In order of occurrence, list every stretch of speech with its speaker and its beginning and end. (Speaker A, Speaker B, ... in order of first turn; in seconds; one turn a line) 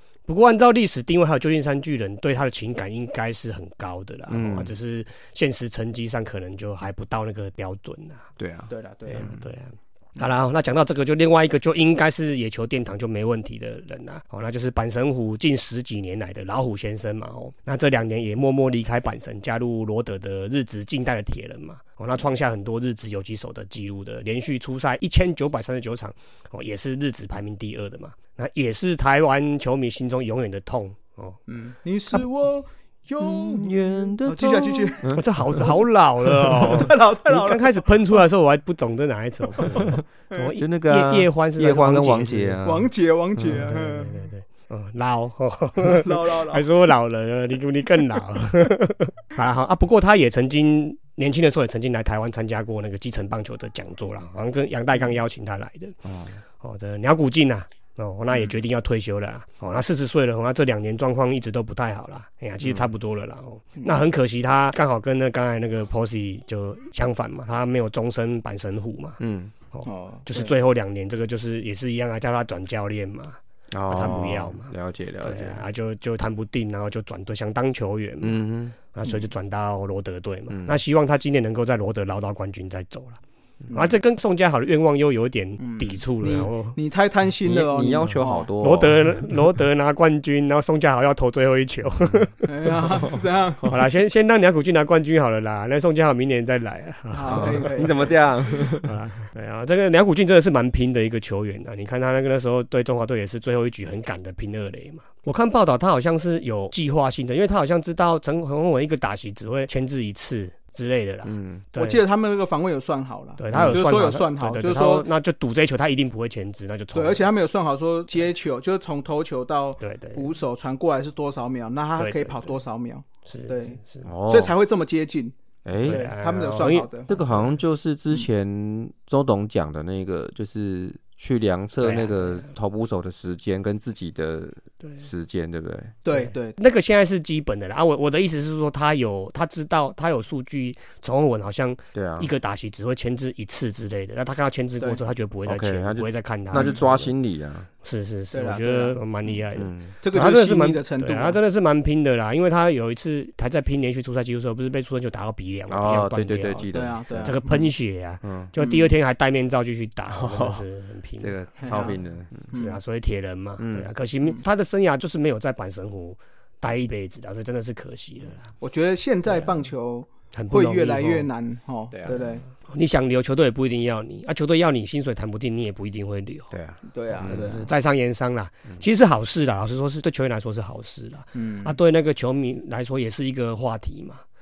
Speaker A: 0.3-8.3
Speaker B: 4.3-4.7
Speaker B: 8.4-9.3
Speaker C: 8.7-9.3
Speaker A: 9.1-31.4
Speaker C: 31.5-35.1
Speaker B: 33.2-35.7
Speaker A: 35.1-42.6
Speaker C: 36.3-38.2
Speaker B: 39.7-40.0
Speaker B: 40.5-42.9
Speaker C: 42.6-44.2
Speaker A: 43.4-56.0
Speaker C: 45.8-46.6
Speaker B: 56.0-56.4
Speaker A: 56.6-69.2
Speaker B: 62.6-62.9
Speaker B: 69.2-69.5
Speaker A: 69.7-83.2
Speaker C: 69.8-70.5
Speaker B: 73.7-75.6
Speaker B: 78.2-78.8
Speaker B: 80.5-80.8
Speaker A: 83.7-86.8
Speaker C: 85.6-88.5
Speaker B: 87.4-89.1
Speaker A: 88.6-92.5
Speaker C: 92.5-93.7
Speaker B: 92.9-93.8
Speaker A: 93.7-98.0
Speaker C: 97.1-98.1
Speaker B: 97.3-99.0
Speaker A: 98.8-112.0
Speaker B: 111.2-111.7
Speaker C: 111.8-115.1
Speaker A: 113.4-117.3
Speaker B: 113.5-113.8
Speaker C: 116.9-127.2
Speaker A: 119.8-120.3
Speaker A: 122.0-122.6
Speaker A: 123.2-124.1
Speaker B: 124.0-124.5
Speaker B: 125.6-126.0
Speaker A: 125.8-127.6
Speaker B: 127.1-135.9
Speaker A: 131.8-132.5
Speaker C: 136.0-136.6
Speaker A: 136.1-147.1
Speaker B: 141.9-142.3
Speaker B: 145.5-147.7
Speaker A: 147.8-161.9
Speaker C: 148.3-149.0
Speaker B: 149.6-149.9
Speaker C: 150.0-151.4
Speaker B: 155.7-157.3
Speaker C: 156.7-157.7
Speaker B: 158.2-158.5
Speaker C: 158.6-158.9
Speaker B: 160.1-160.6
Speaker B: 161.2-162.5
Speaker C: 161.6-162.0
Speaker C: 162.5-162.8
Speaker A: 162.5-168.5
Speaker B: 163.6-163.9
Speaker C: 168.6-172.4
Speaker A: 169.3-169.6
Speaker A: 170.3-171.3
Speaker B: 171.9-172.2
Speaker A: 172.1-176.5
Speaker B: 176.5-177.5
Speaker C: 176.9-177.7
Speaker A: 177.1-184.2
Speaker C: 181.3-181.8